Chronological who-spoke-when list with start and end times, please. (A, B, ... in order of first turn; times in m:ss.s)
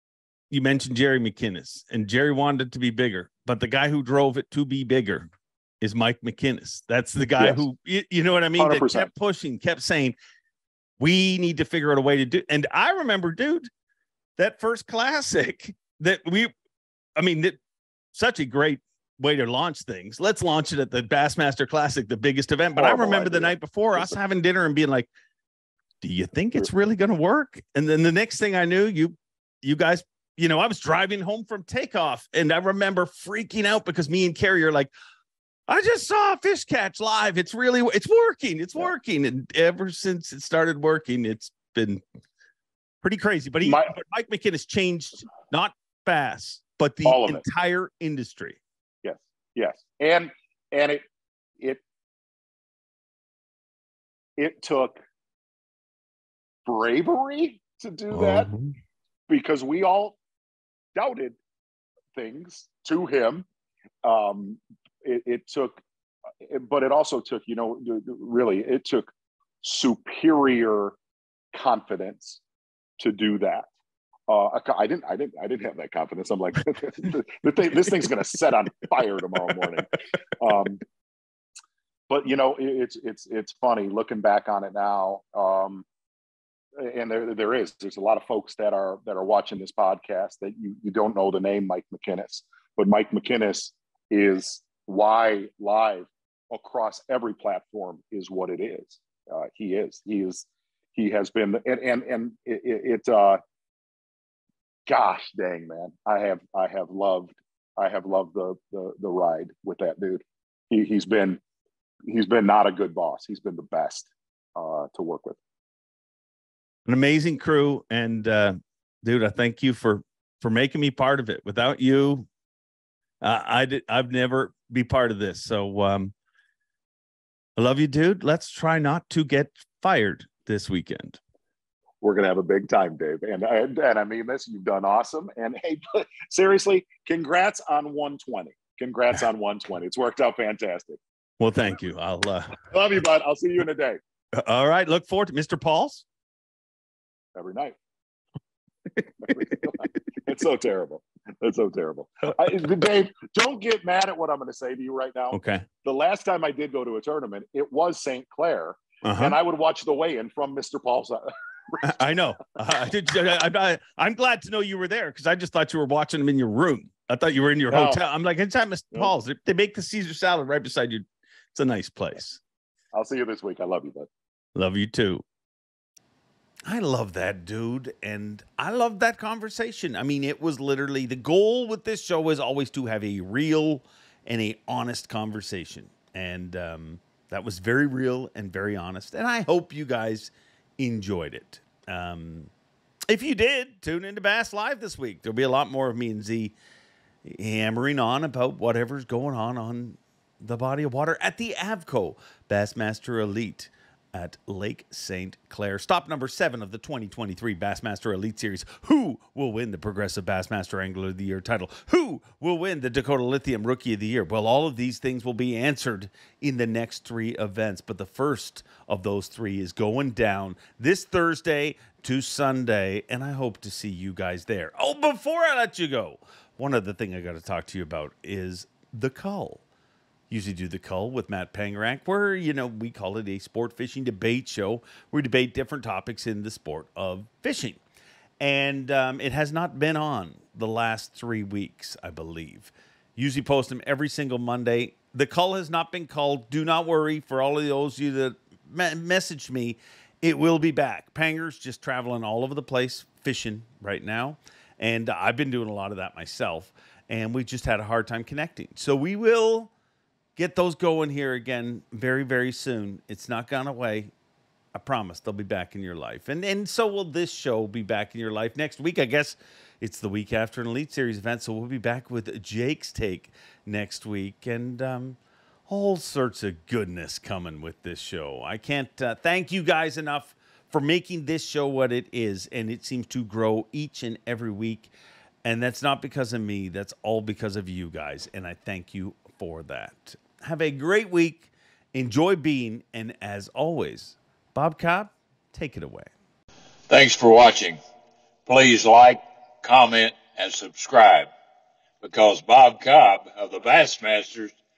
0:00.5-0:05.3 A
0:05.8-0:10.1 A
0:07.4-0:07.6 B
0:08.6-0:09.1 B
0:11.0-0:13.7 A
0:14.4-0:16.5 A
0:17.2-0:17.6 A
0:18.1-0:25.1 A
0:22.7-0:24.2 B
0:26.0-0:34.9 A
0:35.7-0:42.0 A
0:43.0-0:48.6 A
0:43.6-0:44.0 B
0:47.0-0:47.4 B
0:49.0-0:51.0 B
0:54.4-0:55.0 B
0:56.6-0:58.5 B
0:58.1-0:58.7 A
0:59.3-1:00.2 B
1:00.9-1:01.4 B
1:02.1-1:03.4 B
1:04.0-1:05.8 B
1:06.4-1:09.1 B
1:09.6-1:11.0 B
1:11.5-1:12.4 B
1:13.0-1:13.7 B
1:14.3-1:20.8 B
1:22.1-1:25.8 B
1:26.8-1:43.4 B
1:44.9-1:51.4 B
1:52.1-1:55.4 B
1:56.8-2:02.3 A
2:03.2-2:06.1 A
2:07.6-2:11.2 A
2:12.0-2:21.0 B
2:21.4-2:22.6 A
2:22.7-2:24.0 B
2:24.4-2:26.0 A
2:27.3-2:27.8 B
2:29.2-2:42.0 B
2:35.3-2:35.6 A
2:39.0-2:39.4 A
2:41.8-2:52.4 A
2:47.7-2:48.0 B
2:52.9-2:54.1 B
2:54.5-2:55.2 A
2:56.6-3:12.5 A
3:13.1-3:16.5 A
3:17.2-3:49.6 A
3:50.3-3:57.8 A
3:58.4-4:19.7 A
4:20.4-4:24.1 A
4:24.7-4:44.9 A
4:45.4-4:56.1 A
4:56.9-4:57.8 C
4:58.5-5:01.3 C
5:02.0-5:04.5 C